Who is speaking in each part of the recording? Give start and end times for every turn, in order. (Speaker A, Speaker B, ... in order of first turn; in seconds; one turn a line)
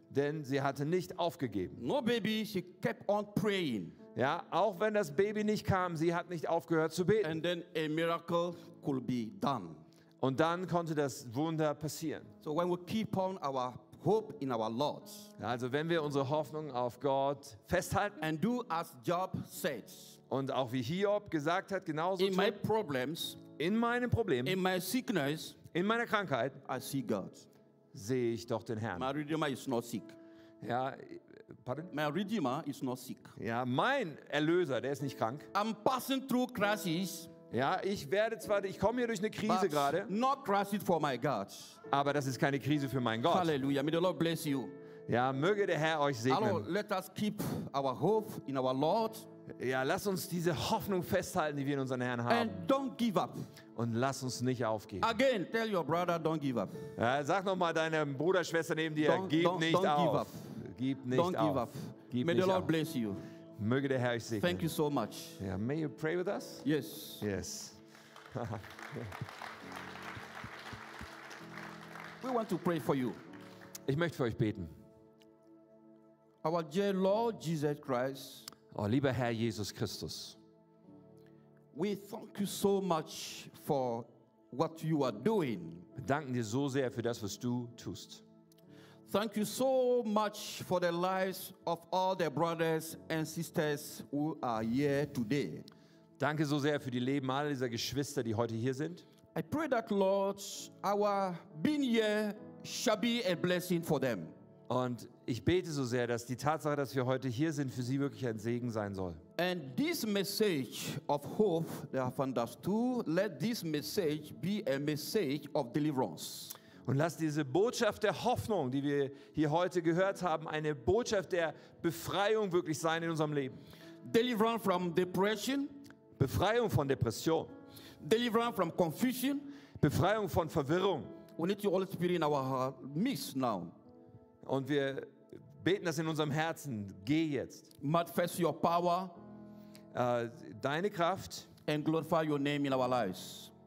Speaker A: 0.1-1.8
Speaker B: 1.8-4.0
Speaker A: 4.2-7.3
Speaker B: 7.2-9.8
Speaker A: 10.2-12.3
Speaker B: 12.4-15.3
Speaker A: 15.4-18.2
Speaker B: 18.2-20.2
Speaker A: 20.3-22.6
Speaker B: 22.2-23.4
Speaker A: 23.6-24.6
Speaker B: 24.4-25.6
Speaker A: 25.7-26.6
Speaker B: 26.6-27.5
Speaker A: 27.9-29.1
Speaker B: 29.0-30.2
Speaker A: 30.6-31.9
Speaker B: 31.9-33.4
Speaker A: 33.4-35.5
Speaker B: 35.5-37.3
Speaker A: 37.5-40.1
Speaker B: 39.4-41.8
Speaker A: 41.9-43.5
Speaker B: 43.3-44.7
Speaker A: 45.1-46.7
Speaker B: 46.3-49.3
Speaker A: 49.6-52.5
Speaker B: 52.3-53.5
Speaker A: 53.8-55.1
Speaker B: 55.0-56.9
Speaker A: 57.0-62.7
Speaker B: 59.0-60.6
Speaker B: 61.1-63.2
Speaker A: 63.6-64.7
Speaker B: 64.4-65.4
Speaker A: 65.4-66.7
Speaker B: 66.6-67.2
Speaker A: 67.2-67.8
Speaker A: 68.3-69.1
Speaker B: 72.2-73.2
Speaker A: 73.9-74.7
Speaker B: 76.4-78.5
Speaker A: 78.7-80.4
Speaker B: 81.7-85.9
Speaker A: 86.0-88.2
Speaker B: 89.1-95.7
Speaker A: 96.2-99.1
Speaker B: 99.3-104.3
Speaker A: 104.7-109.2
Speaker B: 109.4-116.5
Speaker A: 116.8-123.6
Speaker B: 124.0-125.8
Speaker A: 126.2-127.5
Speaker B: 128.0-129.5
Speaker A: 129.8-131.2
Speaker B: 131.4-133.7
Speaker A: 134.4-137.7
Speaker B: 137.8-139.2
Speaker A: 139.9-141.5
Speaker B: 141.7-143.5